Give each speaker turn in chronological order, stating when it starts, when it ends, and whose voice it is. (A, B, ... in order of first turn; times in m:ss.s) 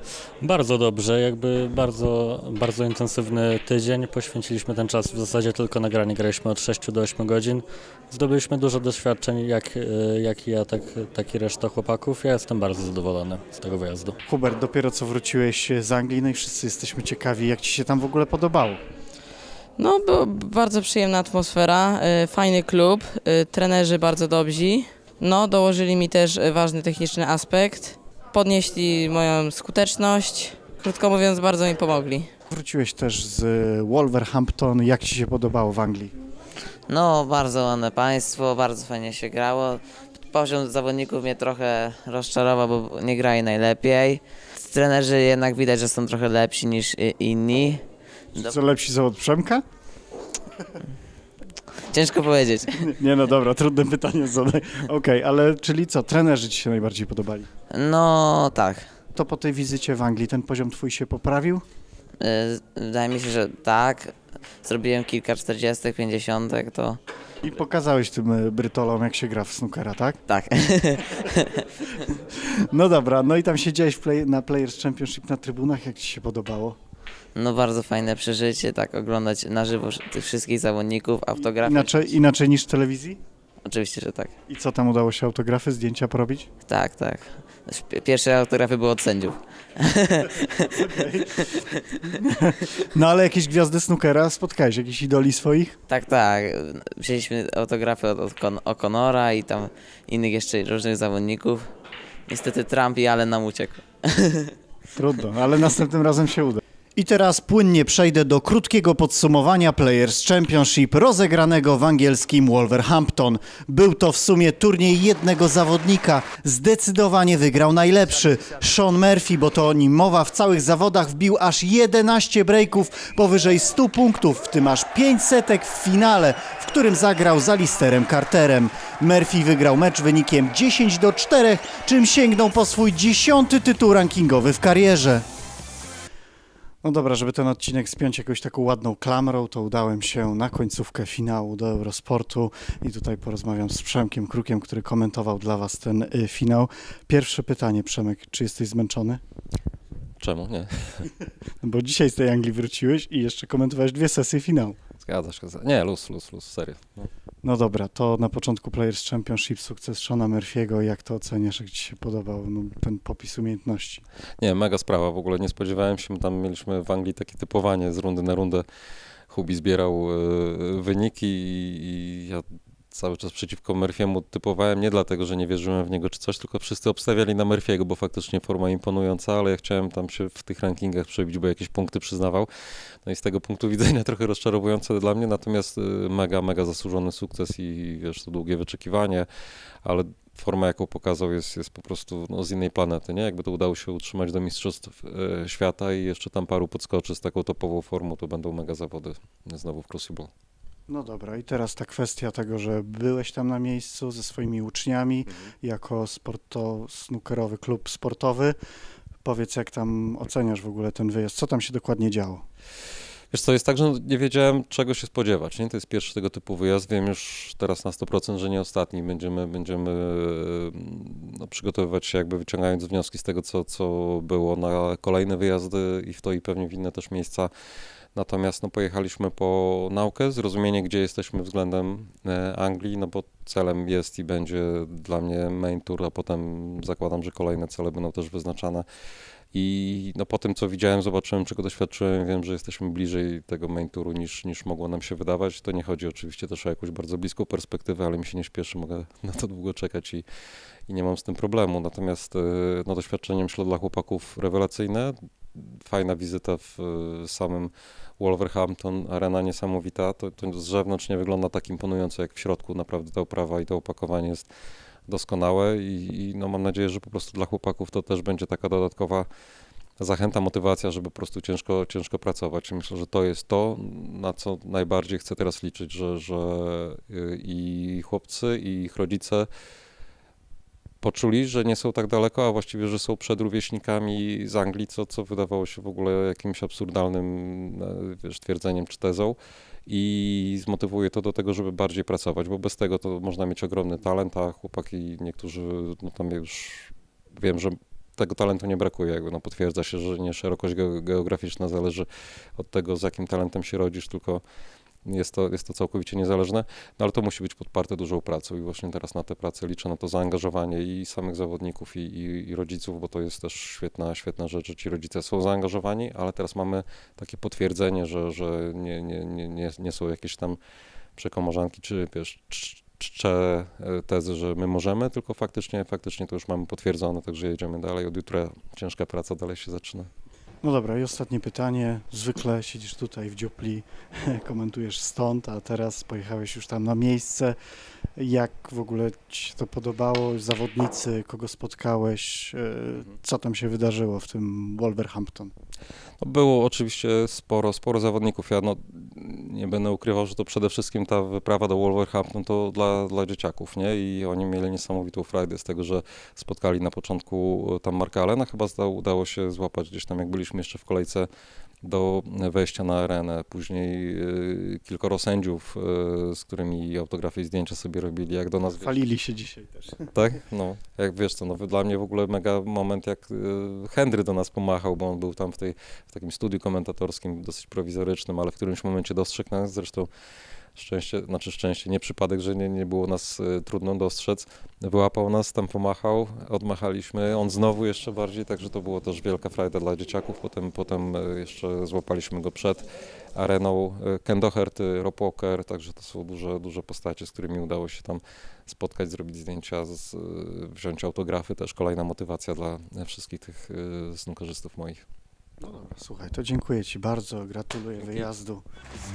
0:00.4-0:14.1 A
0:14.2-0:18.8 B
0:19.8-0:32.3 C
0:32.5-0:36.1 B
0:36.9-0:47.8 D
0:48.4-0:49.6 B
0:51.9-0:52.7 D
0:52.8-0:57.5 B
0:57.7-0:58.9 D
0:59.1-1:01.6 B
1:02.2-1:07.0 D
1:07.4-1:10.2 B
1:10.3-1:11.6 D
1:12.7-1:16.8 B
1:17.3-1:22.1 D
1:21.6-1:23.2 B
1:23.6-1:24.3 D
1:24.5-1:26.5 B
1:26.7-1:30.7 D
1:30.9-1:31.4 B
1:32.2-1:35.8 B
1:35.9-1:41.7 D
1:42.3-1:44.5 D
1:45.0-2:15.2 B
2:16.8-2:29.2 B
2:30.2-2:31.1 E
2:31.6-2:34.8 B
2:35.0-2:37.1 E
2:37.4-2:44.0 B
2:44.4-2:48.6 E
2:49.3-3:02.5 E
3:03.0-3:09.3 E
3:09.8-3:20.3 E
3:20.9-3:28.6 B
3:29.2-3:32.4 B
3:33.3-3:47.5 E
3:48.2-3:58.8 E
3:59.5-4:10.2 E
4:10.9-4:24.5 E
4:25.1-4:29.3 E
4:30.0-4:39.5 E
4:41.0-5:04.4 E
5:05.0-5:20.6 E
5:21.2-5:30.1 E
5:30.6-5:37.6 B
5:38.2-5:45.5 B
5:46.2-6:01.3 E
6:01.8-6:09.0 E
6:08.8-6:09.9 B
6:10.2-6:20.1 E
6:20.8-6:45.0 E
6:45.6-6:48.6 B